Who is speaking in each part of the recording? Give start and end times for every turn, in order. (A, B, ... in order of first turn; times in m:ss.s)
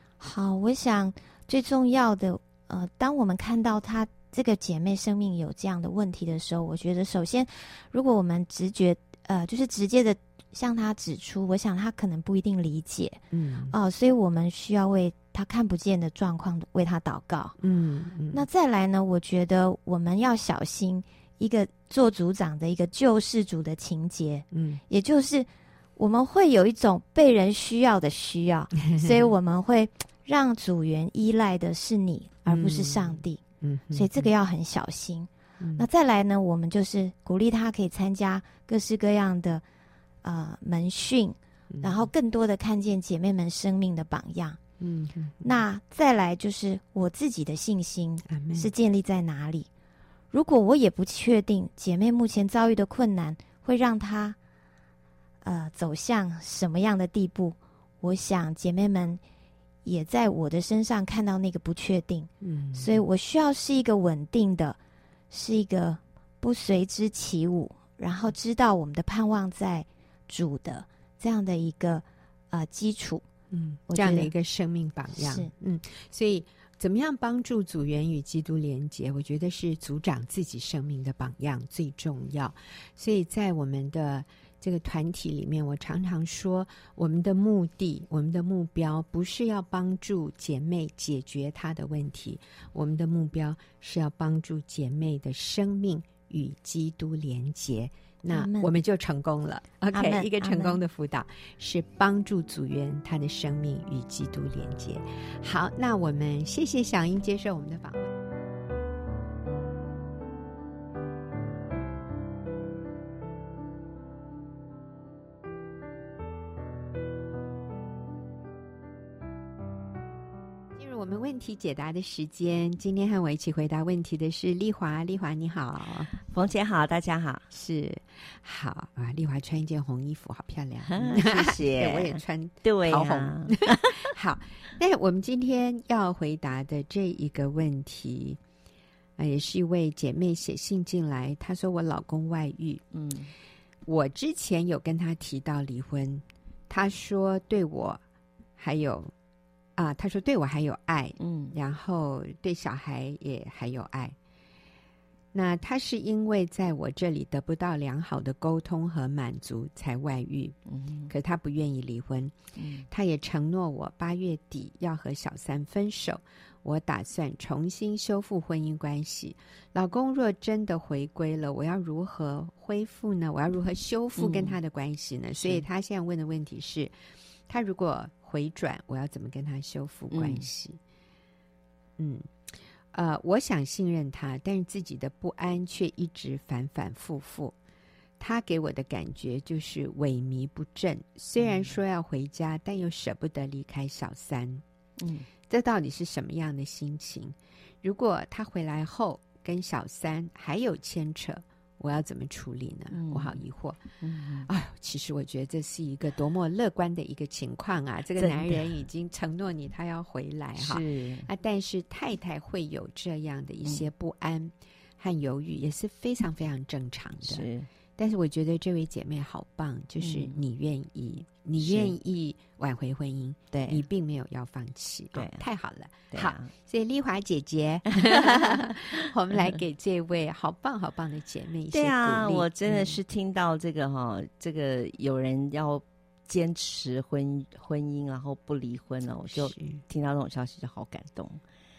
0:00.2-0:17.6 A
0:13.3-0:13.8 B
0:17.6-0:18.5 B
0:18.3-0:39.6 A
0:24.5-0:24.8 B
0:28.8-0:29.3 B
0:32.5-0:34.3 B
0:35.6-0:35.9 B
0:40.2-0:44.6 A
0:41.7-0:42.0 B
0:44.8-0:45.5 B
0:45.4-0:49.7 A
0:48.3-0:48.7 B
0:50.3-0:54.4 A
0:55.4-0:59.2 A
0:59.8-1:04.8 A
1:02.4-1:03.0 B
1:05.3-1:13.2 A
1:13.5-1:48.1 B
1:13.9-1:14.3 A
1:15.2-1:15.5 A
1:38.3-1:38.7 A
1:39.9-1:40.8 A
2:00.8-2:06.1 B
2:06.1-2:07.4 C
2:07.5-2:18.4 B
2:10.9-2:14.0 C
2:19.2-2:22.8 B
2:22.9-2:23.3 C
2:23.9-2:28.0 B
2:28.6-2:29.1 B
2:29.8-2:34.1 B
2:31.2-2:31.6 C
2:35.3-2:40.6 B
2:40.7-2:41.1 C
2:41.1-2:42.4 B
2:42.6-2:42.9 C
2:42.9-2:56.9 B
2:54.2-2:54.6 C
2:57.5-3:00.8 B
3:00.1-3:00.4 C
3:02.0-3:07.6 B
3:08.2-3:14.6 B
3:11.4-3:11.7 C
3:15.0-3:15.3 C
3:15.5-3:23.9 B
3:22.9-3:23.4 C
3:24.0-3:24.5 C
3:24.4-3:53.0 B
3:28.2-3:28.8 C
3:30.6-3:31.3 C
3:37.2-3:37.7 C
3:40.0-3:40.4 C
3:41.6-3:42.0 C
3:43.5-3:43.8 C
3:45.1-3:45.4 C
3:46.1-3:46.5 C
3:48.2-3:48.7 C
3:51.7-4:01.4 C
3:59.3-3:59.8 B